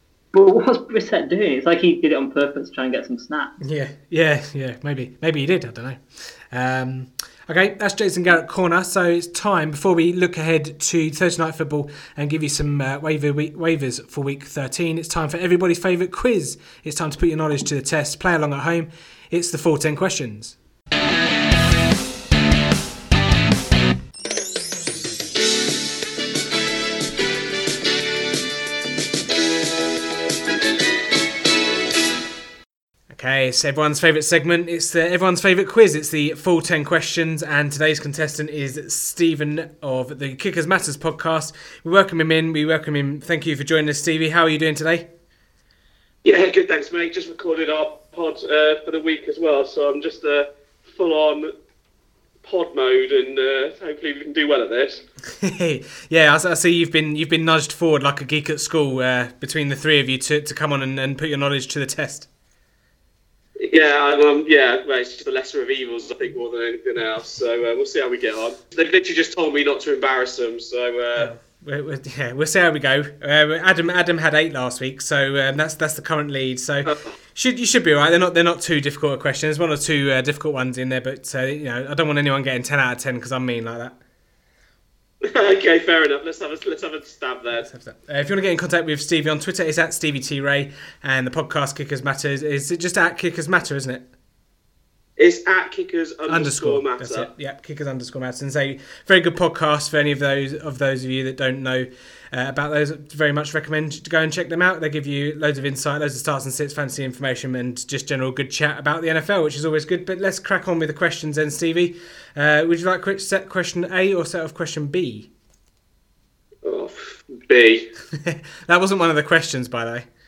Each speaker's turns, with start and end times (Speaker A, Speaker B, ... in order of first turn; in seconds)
Speaker A: 0.3-3.5
Speaker B: 3.6-20.6, 33.1-45.1, 55.4-62.3, 71.2-84.0, 87.6-94.1, 96.3-115.3, 118.1-120.1
Speaker C: 46.2-51.5, 52.4-55.0, 63.6-71.3, 76.9-77.1, 85.2-87.7, 95.2-97.3, 116.6-117.9